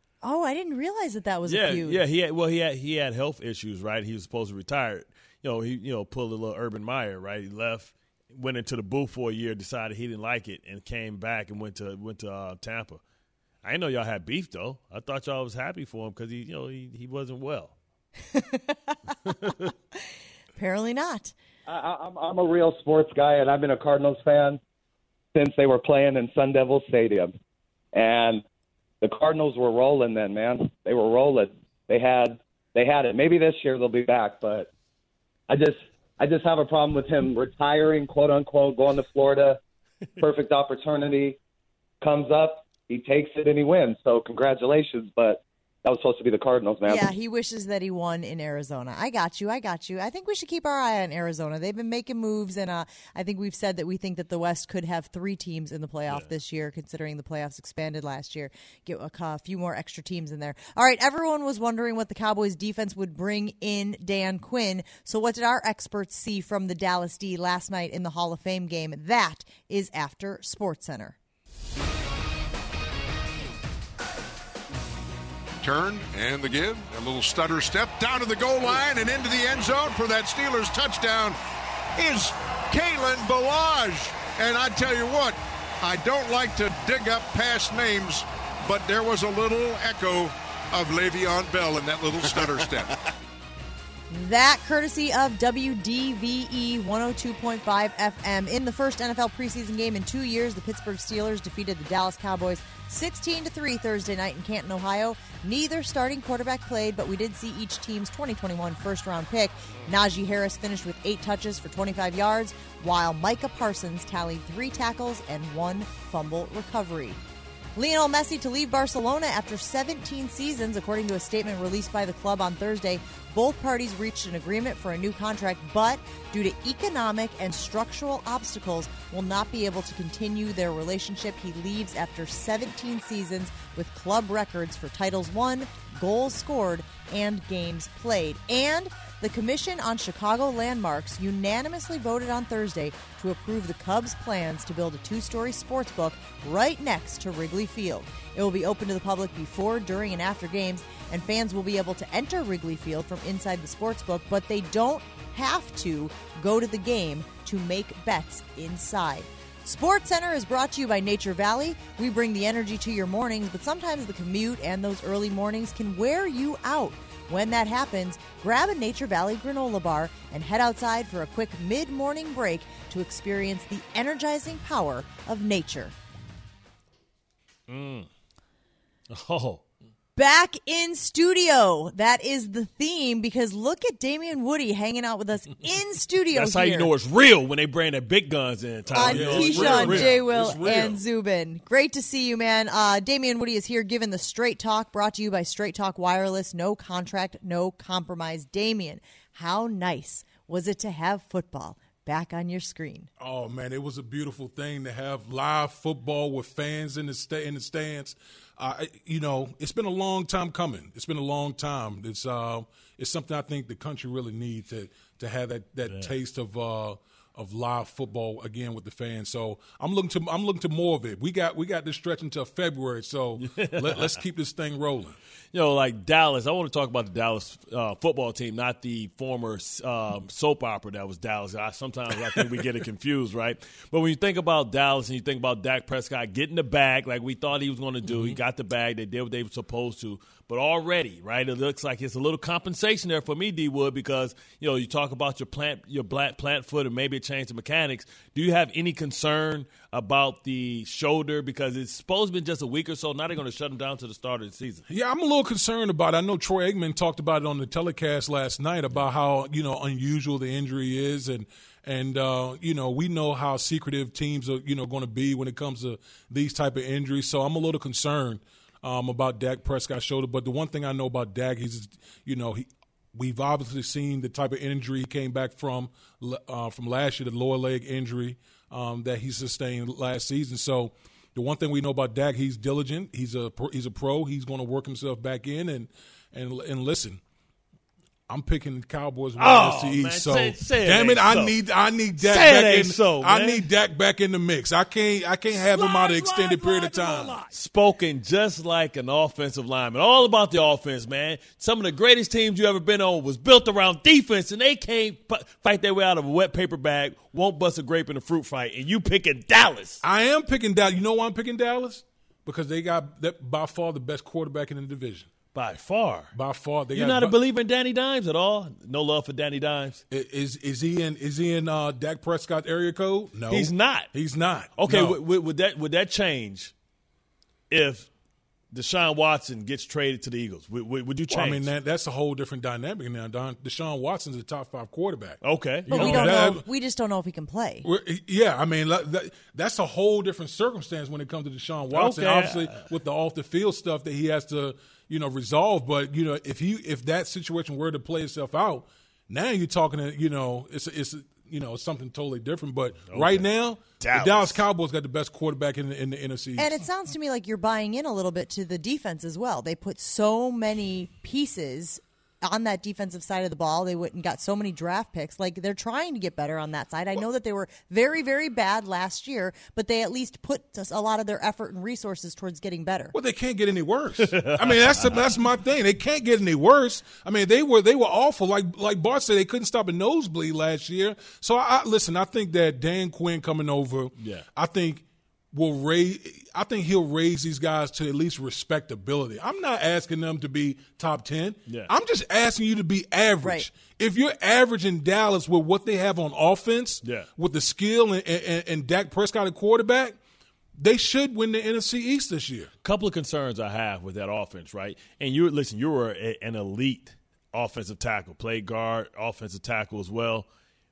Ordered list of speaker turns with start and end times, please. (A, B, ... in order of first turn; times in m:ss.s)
0:00.2-0:02.0 A
0:01.4-0:13.0 B
0:13.6-0:17.7 B
0:18.3-0:19.0 A
0:19.2-0:19.7 B
0:20.6-0:21.3 A
0:21.7-0:24.6 C
0:25.3-0:27.3 C
0:27.9-0:28.4 C
0:29.0-0:34.7 C
0:35.5-0:39.6 C
0:40.2-0:41.4 C
0:42.0-0:47.1 C
0:46.8-1:11.2 A
1:15.6-1:21.4 D
1:22.0-1:32.9 D
1:34.1-1:57.2 A
1:57.7-2:55.9 A
2:57.7-2:58.1 B
2:59.1-2:59.6 B
3:00.2-3:06.9 A
3:06.3-3:10.6 B
3:08.9-3:11.0 E
3:08.9-3:23.1 A
3:23.2-3:45.2 E
3:35.8-3:36.1 B
3:43.4-3:44.2 B
3:45.5-4:14.8 B
3:58.0-3:58.4 E
4:14.9-4:47.2 E
4:48.3-4:57.5 E
4:49.4-4:51.6 B
4:52.2-4:53.7 B
4:55.6-5:10.0 B
5:10.0-5:15.3 E
5:15.5-5:16.3 B
5:16.3-5:17.4 E
5:16.9-5:20.0 B
5:20.1-5:25.2 E
5:23.5-5:24.1 B
5:24.8-5:26.7 B
5:27.7-5:28.1 B
5:28.7-5:31.7 B
5:31.3-5:36.6 E
5:35.4-5:36.5 B
5:35.9-5:37.9 A
5:37.8-5:56.7 E
5:41.9-5:42.9 B
5:53.1-5:53.5 B
5:54.0-5:54.6 B
5:56.6-6:13.1 A
6:13.1-6:40.2 E
6:14.2-6:15.2 B
6:24.2-6:24.4 B
6:33.4-6:33.7 A
6:37.0-6:37.3 B
6:40.8-6:42.7 E
6:42.8-6:50.5 B